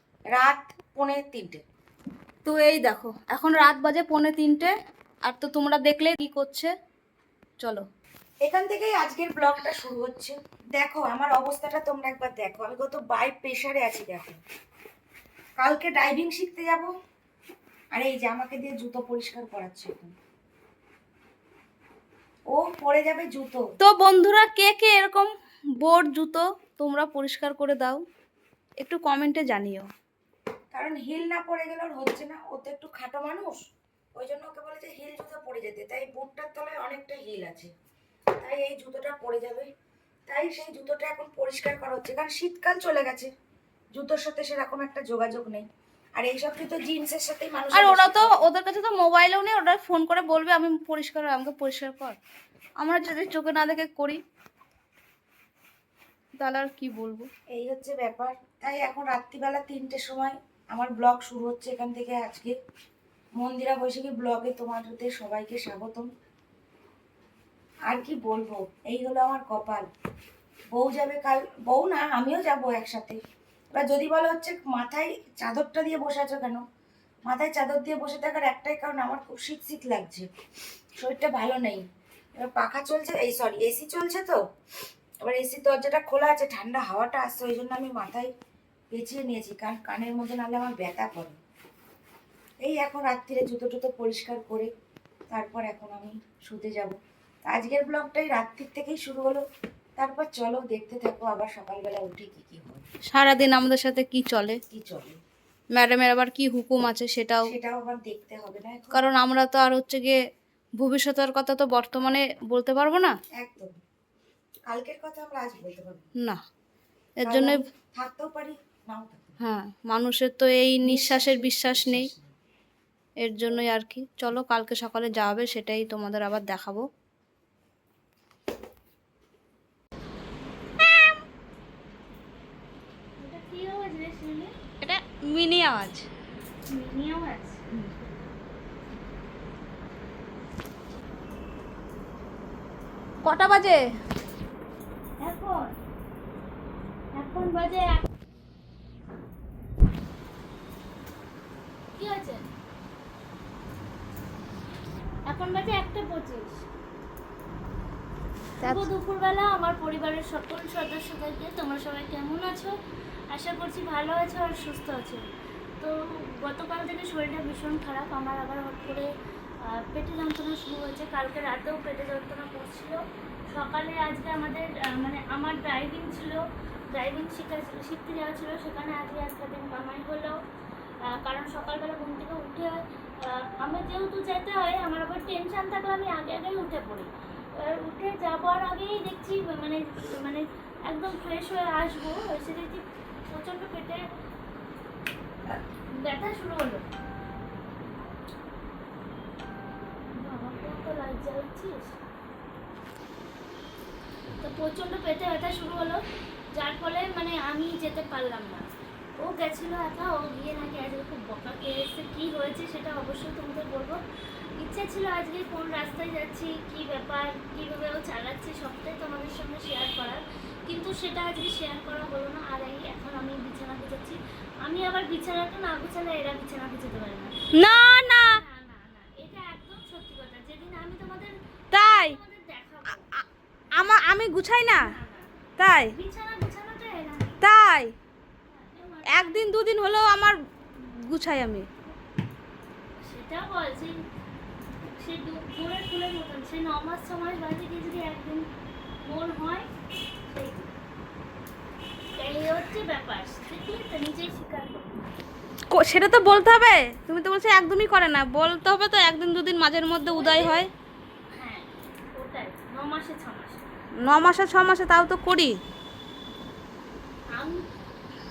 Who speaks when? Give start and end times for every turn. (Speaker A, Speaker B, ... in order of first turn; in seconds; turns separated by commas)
Speaker A: 0.3-1.6, Speaker B: 2.4-6.7, Speaker B: 7.6-7.8, Speaker A: 8.4-14.4, Speaker A: 15.6-16.9, Speaker A: 17.9-20.1, Speaker A: 22.5-23.6, Speaker B: 23.8-28.0, Speaker B: 28.8-29.9, Speaker A: 30.7-37.7, Speaker A: 38.4-39.7, Speaker A: 40.3-43.3, Speaker A: 43.9-48.4, Speaker B: 47.7-52.2, Speaker B: 52.8-54.2, Speaker B: 56.4-57.3, Speaker A: 57.5-62.6, Speaker A: 63.4-66.1, Speaker A: 67.9-69.9, Speaker A: 70.7-73.2, Speaker A: 73.7-76.6, Speaker A: 77.2-80.3, Speaker A: 81.0-81.8, Speaker A: 82.4-84.4, Speaker A: 85.2-88.3, Speaker A: 88.9-91.4, Speaker A: 92.6-94.7, Speaker A: 95.3-99.5, Speaker A: 100.0-102.8, Speaker B: 103.1-104.6, Speaker A: 104.7-105.2, Speaker B: 105.7-107.5, Speaker A: 107.4-109.0, Speaker B: 108.9-110.2, Speaker B: 110.8-113.2, Speaker A: 113.3-113.8, Speaker A: 114.7-116.1, Speaker B: 117.2-117.6, Speaker A: 117.2-119.4, Speaker B: 119.4-122.1, Speaker A: 120.8-122.3, Speaker B: 123.2-126.8, Speaker B: 130.8-131.2, Speaker C: 133.2-134.5, Speaker B: 134.8-136.1, Speaker C: 136.7-137.6, Speaker B: 143.2-143.8, Speaker C: 145.2-145.7, Speaker C: 147.2-148.1, Speaker C: 151.9-152.5, Speaker C: 155.3-156.7, Speaker B: 158.6-158.9, Speaker C: 158.6-162.7, Speaker C: 163.3-165.2, Speaker C: 165.8-169.1, Speaker C: 169.6-180.4, Speaker C: 181.0-194.0, Speaker C: 195.9-196.8, Speaker C: 200.2-202.0, Speaker C: 204.4-206.0, Speaker C: 206.5-214.0, Speaker C: 214.6-233.0, Speaker B: 227.5-228.3, Speaker B: 231.7-232.2, Speaker B: 233.8-234.9, Speaker C: 234.7-235.3, Speaker B: 235.6-235.9, Speaker C: 235.9-237.3, Speaker B: 237.4-237.9, Speaker C: 238.5-239.5, Speaker B: 239.1-241.7, Speaker C: 243.0-244.0, Speaker C: 245.0-248.4, Speaker C: 249.0-249.7, Speaker C: 250.2-250.7, Speaker C: 252.2-255.1, Speaker B: 255.7-260.7, Speaker C: 260.1-260.7, Speaker C: 261.3-263.6, Speaker B: 264.0-265.6, Speaker C: 267.3-267.6